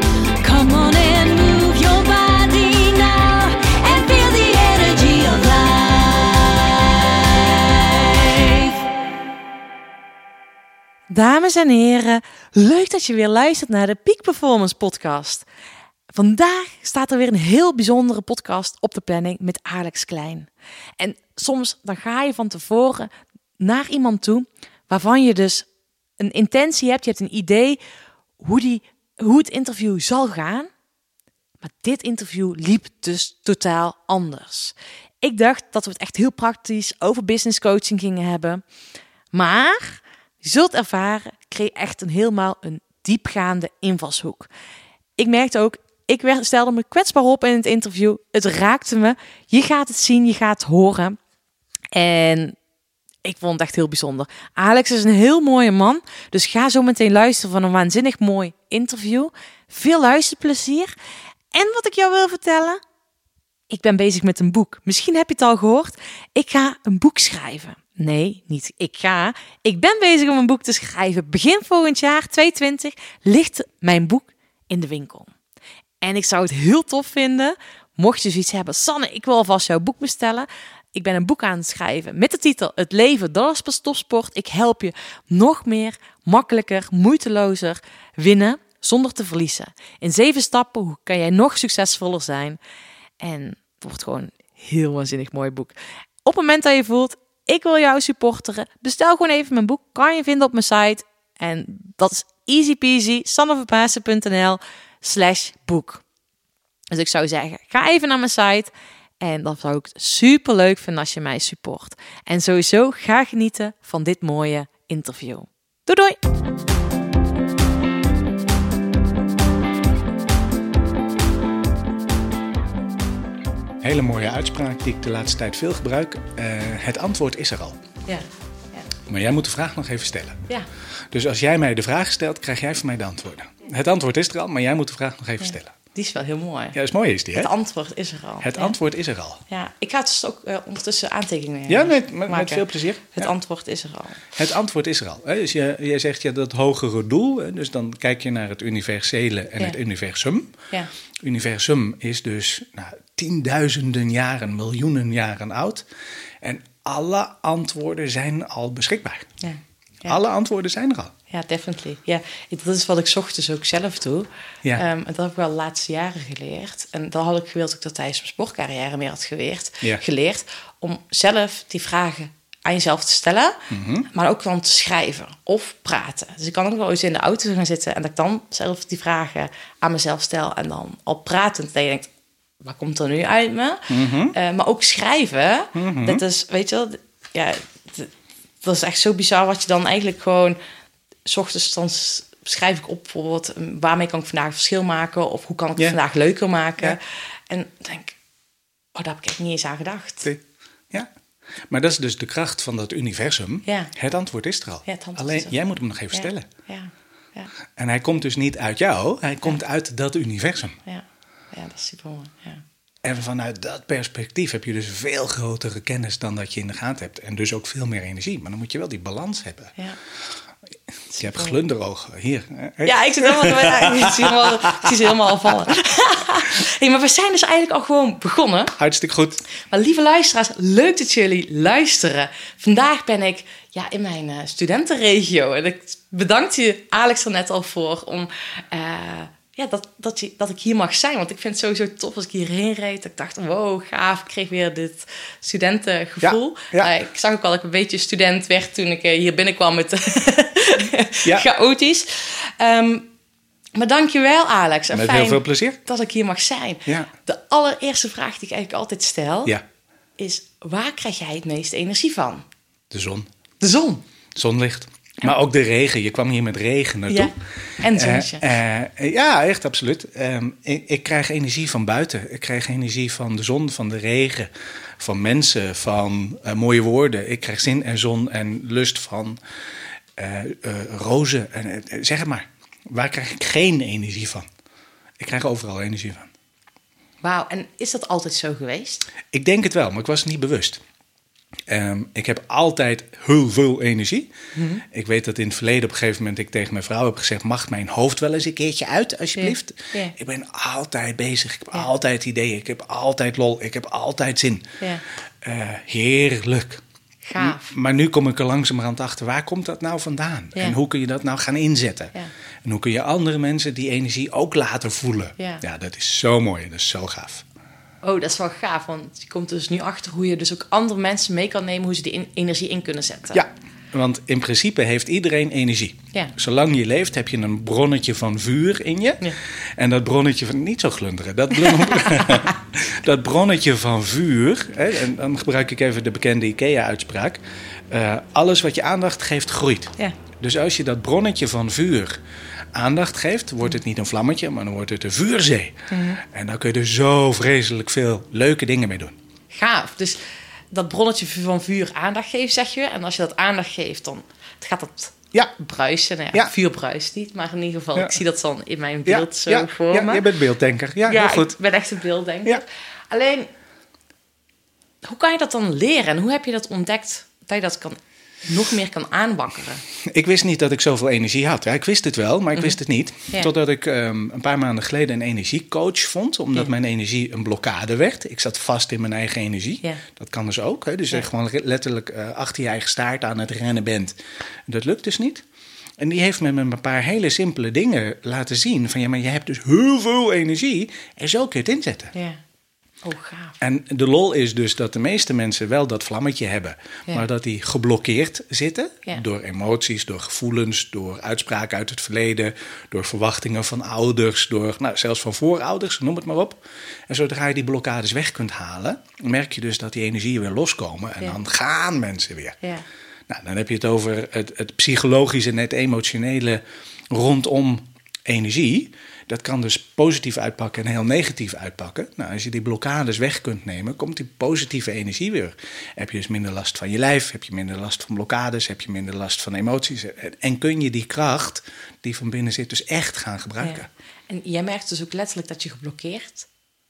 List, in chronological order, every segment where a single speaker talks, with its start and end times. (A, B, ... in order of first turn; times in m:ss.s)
0:00.4-0:08.9 A
0:11.1-0:15.5 B
0:16.1-0:25.7 B
0:26.2-0:27.8 B
0:28.4-0:30.7 B
0:31.6-0:38.6 B
0:39.3-0:44.5 B
0:45.2-0:51.2 B
0:51.9-0:52.6 B
0:53.2-1:00.9 B
1:01.5-1:02.8 B
1:03.7-1:15.3 B
1:16.0-1:32.6 B
1:33.2-1:46.0 B
1:46.9-1:56.2 B
2:03.8-2:07.8 C
2:08.1-2:08.8 B
2:09.1-2:10.4 C
2:11.1-2:15.7 C
2:16.0-2:16.8 B
2:16.7-2:17.5 C
2:17.4-2:18.8 B
2:18.4-2:19.4 C
2:19.5-2:24.2 B
2:21.7-2:23.3 C
2:24.4-2:30.6 C
2:31.2-2:35.9 C
2:36.4-2:39.3 C
2:39.4-2:40.2 B
2:40.1-2:41.1 C
2:41.3-3:02.1 B
2:53.7-2:54.1 C
3:02.6-3:08.1 B
3:03.9-3:04.4 C
3:05.8-3:06.2 C
3:08.6-3:10.6 B
3:11.3-3:18.2 B
3:19.0-3:20.3 B
3:20.2-3:21.1 C
3:21.7-3:26.5 C
3:23.7-3:23.9 B
3:24.9-3:25.5 B
3:26.1-3:27.5 B
3:27.8-3:30.8 C
3:30.9-3:32.6 B
3:33.0-3:39.7 C
3:41.2-3:41.6 B
3:41.2-3:45.7 C
3:42.8-3:48.8 B
3:48.8-3:49.4 C
3:49.7-4:13.1 B
4:06.2-4:06.9 C
4:13.8-4:19.5 B
4:14.9-4:15.8 C
4:20.2-4:22.4 B
4:22.9-4:23.3 C
4:23.6-4:24.0 B
4:24.4-4:39.4 C
4:27.1-4:28.4 B
4:40.2-4:44.5 C
4:45.2-4:46.3 C
4:47.2-4:49.1 B
4:49.3-4:50.8 C
4:51.7-4:54.3 C
4:54.6-4:54.8 B
4:54.9-5:04.8 C
4:59.4-5:00.1 B
5:05.4-5:06.8 C
5:07.3-5:07.7 B
5:07.4-5:17.4 C
5:15.4-5:15.6 B
5:18.0-5:23.4 B
5:23.3-5:42.2 C
5:31.7-5:32.5 B
5:42.7-5:49.2 C
5:45.9-5:46.2 B
5:49.5-6:00.3 B
5:59.1-6:01.6 C
6:01.1-6:03.5 B
6:05.0-6:09.8 B
6:10.0-6:24.2 C
6:24.7-6:25.4 C
6:26.0-6:32.1 C
6:32.1-6:32.4 B
6:33.0-6:33.6 B
6:33.6-6:52.6 C
6:53.3-7:13.9 C
7:13.6-7:16.5 B